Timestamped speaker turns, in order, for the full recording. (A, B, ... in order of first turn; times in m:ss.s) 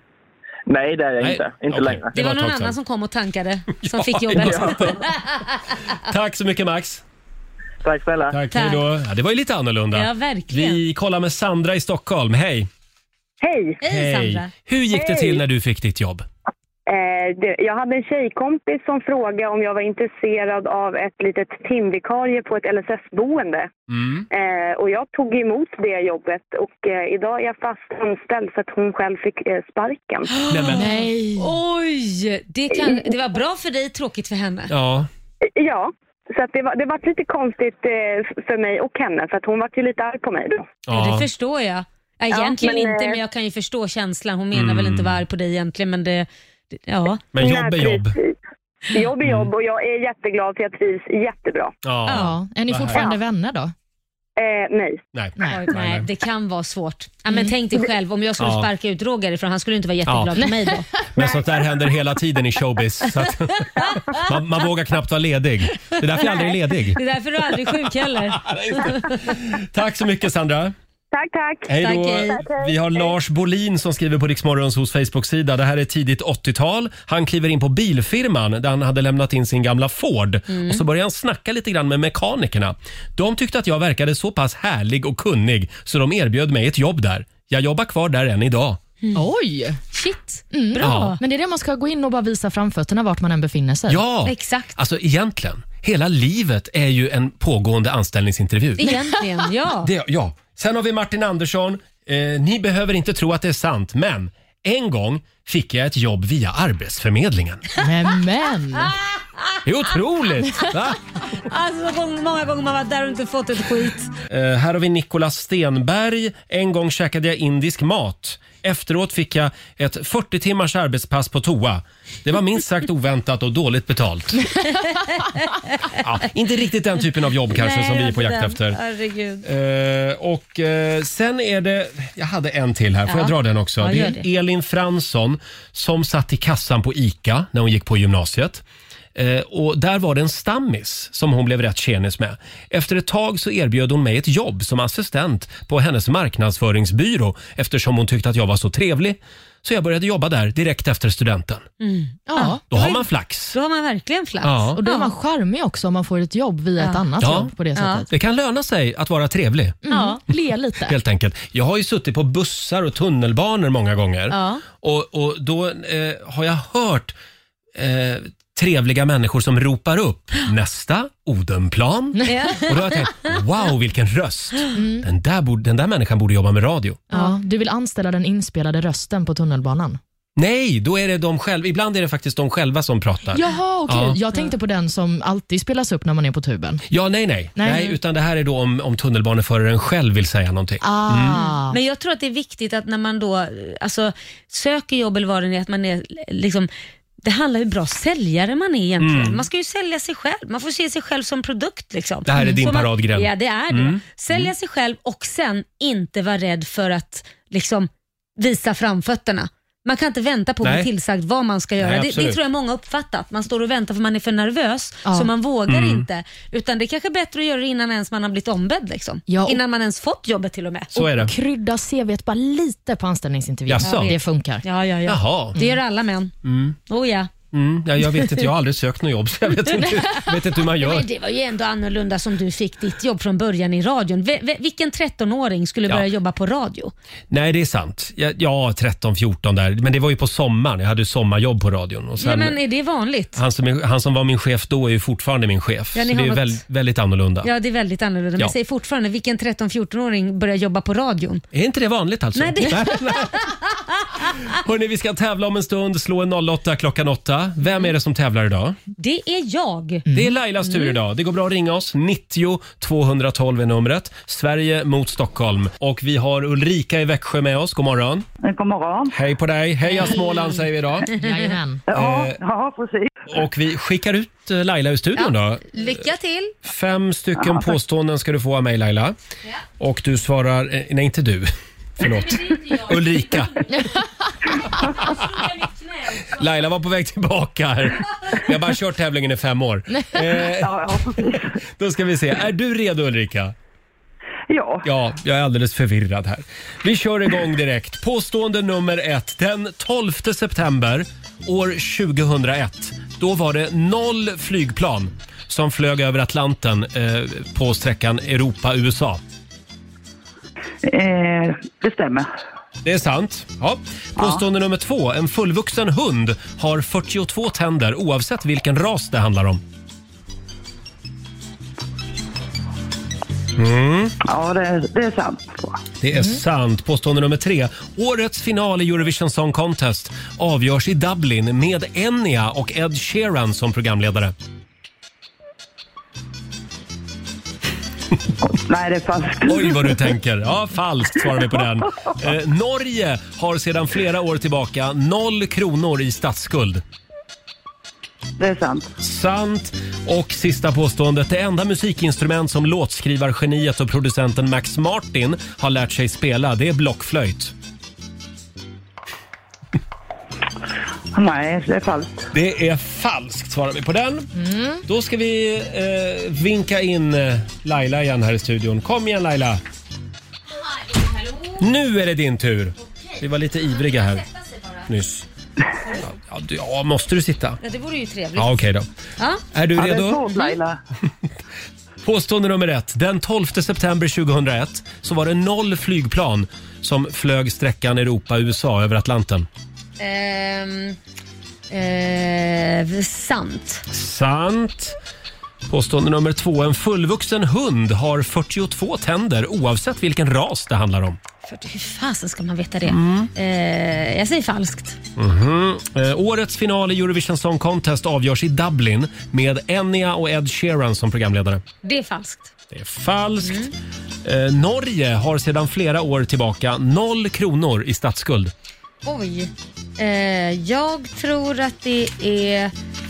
0:00.7-0:02.1 A
0:01.2-0:02.8 B
0:02.1-0:05.8 C
0:03.8-0:05.1 B
0:04.4-0:04.9 A
0:06.0-0:07.0 B
0:07.8-0:08.4 A
0:08.3-0:12.7 B
0:08.5-0:08.8 C
0:09.9-0:10.8 C
0:13.4-0:13.8 D
0:13.8-0:14.5 C
0:13.8-0:16.3 B
0:14.9-0:15.4 D
0:16.9-0:23.7 D
0:23.9-0:24.3 B
0:24.3-0:30.3 D
0:30.4-0:34.7 C
0:30.5-0:30.9 B
0:30.8-0:31.5 E
0:32.7-0:33.1 D
0:34.7-0:35.1 B
0:35.6-0:40.7 D
0:40.9-0:41.3 B
0:40.9-0:47.2 C
0:42.3-0:43.2 D
0:44.5-0:45.2 B
0:47.3-0:48.2 B
0:47.4-0:48.3 D
0:48.9-0:51.7 D
0:49.2-0:49.5 B
0:51.8-0:53.0 B
0:52.1-0:53.7 E
0:54.4-0:55.0 D
0:55.1-0:56.1 B
0:55.5-1:00.9 C
0:58.4-0:58.7 B
1:00.1-1:00.4 B
1:00.4-1:01.0 E
1:01.1-1:07.0 B
1:03.8-1:04.2 C
1:05.9-1:09.2 C
1:07.7-1:10.7 B
1:11.1-1:11.7 D
1:11.7-1:28.8 B
1:11.8-1:12.4 C
1:12.3-1:13.1 D
1:20.5-1:20.8 C
1:29.2-1:29.8 E
1:29.9-1:31.2 C
1:30.5-1:34.0 E
1:30.8-1:31.2 B
1:33.9-1:38.9 B
1:34.3-1:34.8 C
1:38.8-1:39.9 C
1:39.8-1:47.6 B
1:47.8-1:49.0 E
1:48.8-1:49.6 C
1:49.6-1:51.0 B
1:51.3-1:54.1 C
1:54.3-2:04.6 B
2:04.7-2:06.0 C
2:06.0-2:08.8 B
2:07.5-2:09.5 C
2:09.4-2:18.6 B
2:13.1-2:14.2 C
2:19.2-2:31.7 B
2:31.8-2:35.1 C
2:32.3-2:32.6 E
2:32.7-2:33.6 B
2:34.4-2:34.8 B
2:34.8-2:38.1 E
2:36.8-2:37.0 C
2:37.2-2:37.5 B
2:37.8-2:38.0 C
2:38.1-2:39.8 B
2:39.8-2:41.0 E
2:39.9-2:40.2 C
2:40.9-2:47.2 B
2:44.3-2:44.6 C
2:47.8-2:57.1 B
2:52.2-2:53.3 C
2:54.7-2:55.1 E
2:57.1-3:00.0 E
3:00.4-3:04.2 B
3:03.3-3:06.8 E
3:06.9-3:11.4 B
3:07.6-3:07.9 E
3:10.8-3:11.8 E
3:11.3-3:16.7 C
3:17.2-3:40.9 C
3:19.0-3:19.4 B
3:22.2-3:24.5 B
3:30.6-3:30.9 B
3:31.8-3:32.4 B
3:35.7-3:36.1 B
3:39.3-3:39.6 E
3:41.0-3:41.3 B
3:41.0-3:44.6 E
3:43.7-3:44.2 B
3:43.8-3:46.3 C
3:45.1-3:45.6 B
3:46.4-3:46.8 B
3:46.9-3:47.3 C
3:47.5-3:51.1 B
3:48.1-3:48.4 C
3:50.8-3:56.9 C
3:57.3-4:02.6 B
4:02.2-4:03.4 C
4:03.4-4:07.5 B
4:05.9-4:06.6 C
4:07.4-4:11.4 C
4:11.5-4:13.6 B
4:12.4-4:14.4 C
4:14.4-4:18.8 B
4:19.0-4:20.0 C
4:20.1-4:20.3 E
4:20.1-4:28.3 B
4:20.6-4:21.0 C
4:28.4-4:29.2 F
4:29.1-4:31.1 B
4:29.9-4:30.6 C
4:31.2-4:31.8 E
4:31.9-4:33.2 F
4:31.9-4:32.4 B
4:33.3-4:36.0 B
4:35.2-4:36.6 C
4:36.6-4:39.2 B
4:39.8-4:43.7 B
4:42.0-4:44.0 C
4:44.9-4:46.4 C
4:46.3-4:53.6 B
4:50.0-4:50.3 E
4:50.6-4:51.6 F
4:54.5-4:54.9 F
4:54.8-5:09.2 B
5:10.8-5:12.3 F
5:12.8-5:19.6 B
5:14.2-5:14.4 F
5:23.6-5:24.2 B
5:24.2-5:25.8 F
5:26.0-5:34.3 B
5:38.4-5:40.0 F
5:39.4-5:46.8 B
5:48.4-5:48.9 F
5:49.0-5:57.5 B
6:01.1-6:02.3 F
6:02.3-6:04.3 B
6:04.4-6:04.8 E
6:04.8-6:09.6 B
6:10.6-6:11.6 C
6:11.6-6:14.2 B
6:12.8-6:13.2 C
6:13.9-6:14.9 C
6:14.9-6:15.3 B
6:16.0-6:17.6 B
6:17.6-6:18.6 C
6:18.4-6:18.9 B
6:19.2-6:19.4 C
6:19.5-6:20.2 B
6:19.7-6:20.8 F
6:20.3-6:20.6 C
6:22.0-6:29.5 B
6:30.0-6:31.0 C
6:31.7-6:33.9 C
6:33.9-6:35.0 B
6:35.7-6:41.2 B
6:41.5-6:45.0 C
6:42.9-6:43.3 B
6:45.2-6:51.6 B
6:51.8-6:52.5 C
6:52.7-6:53.7 B
6:53.4-6:53.7 C
6:54.2-6:58.5 B
6:59.0-7:02.7 C